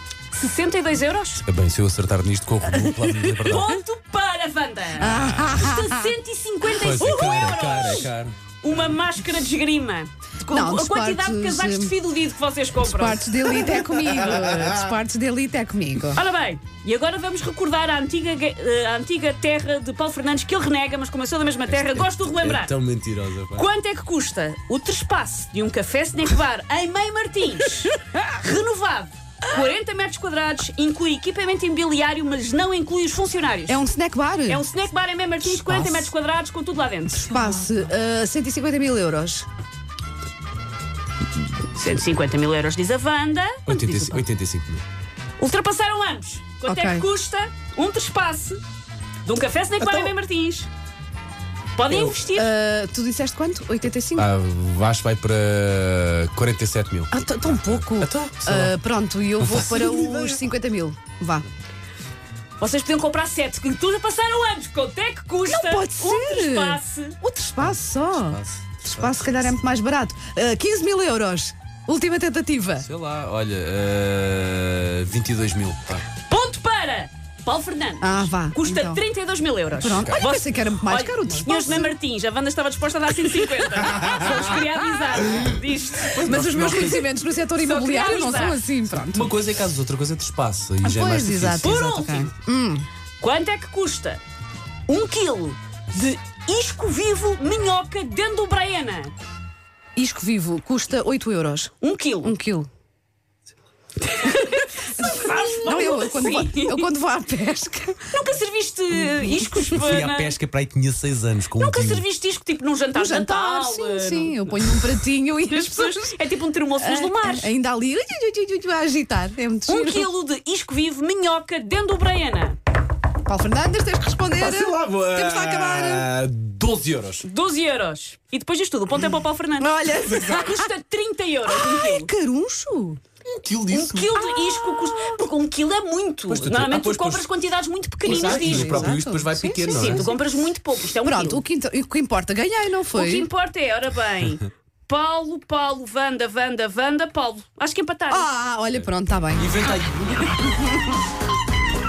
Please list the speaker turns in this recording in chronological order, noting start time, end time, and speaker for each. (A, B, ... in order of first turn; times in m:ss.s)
0:00.3-0:01.4 A
0:01.4-0:03.7 B
0:02.9-0:03.5 C
0:03.5-0:08.1 A
0:05.0-0:06.1 C
0:05.1-0:05.6 B
0:06.7-0:08.4 B
0:08.6-0:13.2 A
0:10.5-0:12.0 C
0:12.8-0:16.2 C
0:13.5-0:14.9 B
0:16.1-0:22.8 A
0:21.7-0:23.7 B
0:23.5-0:33.8 A
0:33.7-0:34.6 C
0:34.5-0:37.4 A
0:35.4-0:36.1 C
0:37.1-0:39.5 C
0:41.7-0:44.2 A
0:43.7-0:44.8 B
0:45.4-0:48.6 A
0:46.7-0:47.1 C
0:49.2-0:50.7 A
0:49.8-0:50.1 B
0:51.8-0:52.5 A
0:51.9-0:54.3 C
0:54.1-0:58.7 B
0:57.1-1:01.5 C
0:59.4-1:00.5 B
1:02.6-1:07.2 A
1:05.5-1:12.9 C
1:07.6-1:09.6 B
1:12.8-1:16.0 B
1:16.3-1:26.2 A
1:18.0-1:19.0 C
1:19.7-1:21.9 C
1:19.9-1:20.2 B
1:24.0-1:24.6 B
1:25.2-1:27.2 B
1:26.2-1:29.4 C
1:27.6-1:28.6 A
1:28.9-1:31.7 B
1:30.8-1:32.9 C
1:31.6-1:32.3 A
1:33.2-1:34.2 A
1:34.9-1:39.1 A
1:40.0-1:42.7 C
1:41.8-1:42.4 A
1:44.0-1:46.9 A
1:44.2-1:48.1 C
1:48.1-1:50.4 A
1:49.0-1:49.8 C
1:49.7-1:52.0 B
1:51.6-1:54.8 A
1:52.9-1:56.2 C
1:55.5-1:57.5 A
1:56.8-2:00.1 C
1:59.7-2:02.6 A
2:03.2-2:06.1 C
2:04.3-2:07.2 B
2:07.2-2:09.7 A
2:09.6-2:10.7 C
2:10.0-2:10.4 B
2:10.2-2:12.1 A
2:11.5-2:13.0 C
2:13.2-2:14.5 B
2:13.7-2:19.0 A
2:16.3-2:17.3 B
2:18.0-2:20.0 C
2:18.1-2:20.4 B
2:19.6-2:21.4 A
2:21.0-2:23.3 C
2:22.9-2:28.3 A
2:28.1-2:29.6 C
2:28.8-2:30.5 B